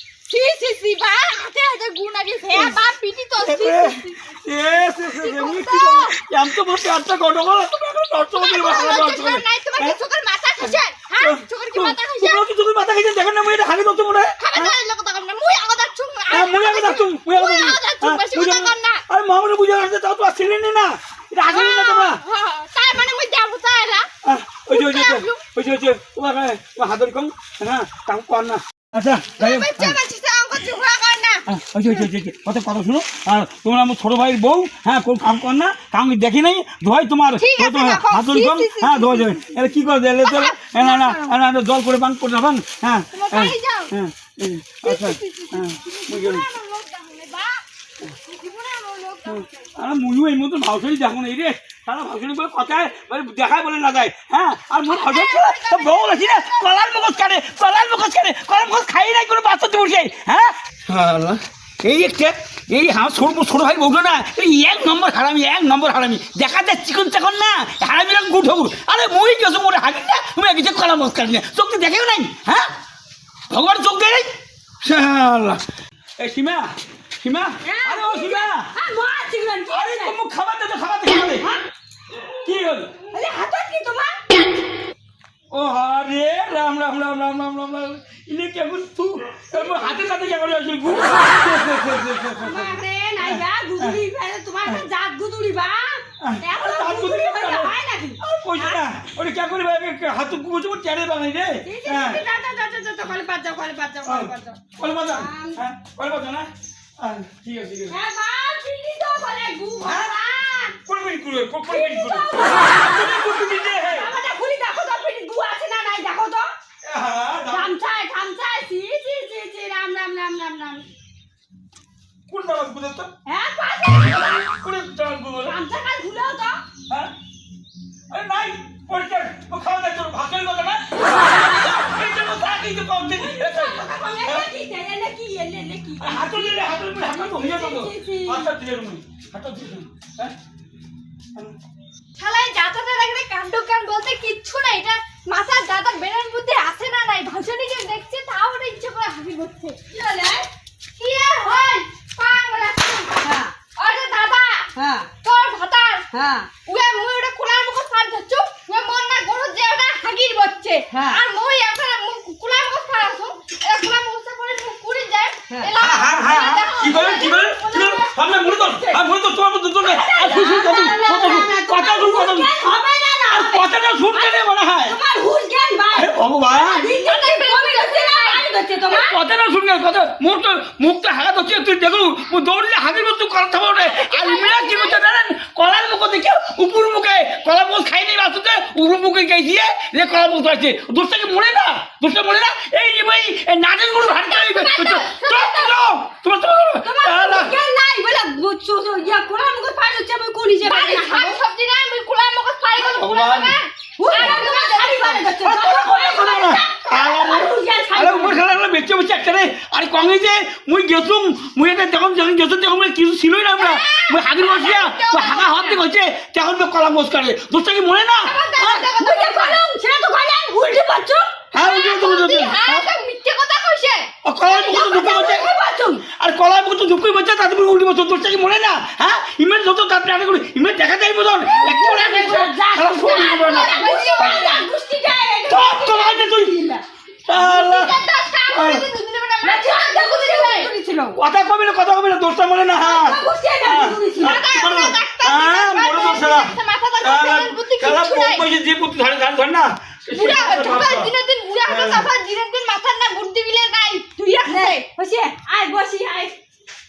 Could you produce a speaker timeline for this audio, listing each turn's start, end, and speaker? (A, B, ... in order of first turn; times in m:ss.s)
0:00.3-0:04.3 A
0:02.5-0:02.8 B
0:03.4-0:10.0 B
0:05.1-0:06.2 A
0:08.3-0:12.4 A
0:10.6-0:14.8 B
0:14.4-0:19.0 A
0:16.3-0:22.2 B
0:21.4-0:24.1 A
0:24.2-0:30.0 B
0:24.7-0:25.5 A
0:29.4-0:31.5 A
0:31.5-0:46.4 B
0:37.4-0:39.4 A
0:40.2-0:41.4 A
0:43.1-0:43.9 A
0:44.8-0:47.6 A
0:48.2-0:49.7 A
0:49.2-1:12.7 B
0:54.8-0:57.2 A
1:13.5-1:15.6 B
1:16.2-1:18.7 B
1:17.6-1:20.1 C
1:19.7-1:21.4 B
1:21.4-1:21.6 C
1:22.4-1:22.9 B
1:23.1-1:24.2 C
1:25.5-1:34.0 B
1:29.6-1:30.0 C
1:32.4-1:38.8 C
1:36.2-1:42.2 B
1:41.6-1:45.6 C
1:44.0-1:48.0 B
1:47.9-1:50.8 C
1:49.8-1:50.1 B
1:50.8-1:54.1 B
1:51.6-1:56.5 C
1:56.8-1:57.7 B
1:57.5-2:00.9 C
2:02.3-2:03.1 B
2:03.2-2:04.5 C
2:04.2-2:05.6 B
2:05.4-2:06.6 C
2:06.9-2:07.1 B
2:08.1-2:14.5 B
2:13.1-2:18.5 C
2:16.0-2:20.4 B
2:22.2-2:29.8 A
2:29.9-2:30.5 C
2:31.0-2:33.2 A
2:33.2-2:33.6 C
2:33.7-2:34.7 A
2:34.7-2:35.1 C
2:35.2-2:36.0 A
2:36.1-2:36.5 C
2:36.6-2:48.9 A
2:40.9-2:41.2 C
2:45.8-2:52.6 B
2:49.8-2:59.2 C
2:53.3-2:55.0 B
2:55.9-2:56.8 B
2:56.5-2:58.4 A
2:58.9-3:17.6 B
3:03.8-3:05.0 A
3:14.1-3:15.8 A
3:16.8-3:21.4 C
3:20.6-3:25.3 A
3:22.8-3:23.5 B
3:24.0-3:28.4 C
3:25.4-3:38.9 B
3:33.6-3:35.8 A
3:38.2-3:39.6 A
3:38.7-3:41.3 C
3:41.5-3:42.9 B
3:41.6-3:45.3 A
3:44.2-3:45.5 B
3:44.6-3:46.0 C
3:46.1-3:54.7 B
3:51.5-3:56.8 C
3:53.0-3:54.5 A
3:55.5-3:56.5 B
3:57.3-3:58.0 B
3:57.3-4:00.7 A
3:58.5-3:58.8 B
3:59.4-4:01.2 C
4:01.1-4:11.1 B
4:02.8-4:04.5 C
4:04.2-4:08.4 A
4:10.1-4:14.8 A
4:11.6-4:12.1 B
4:14.2-4:16.4 C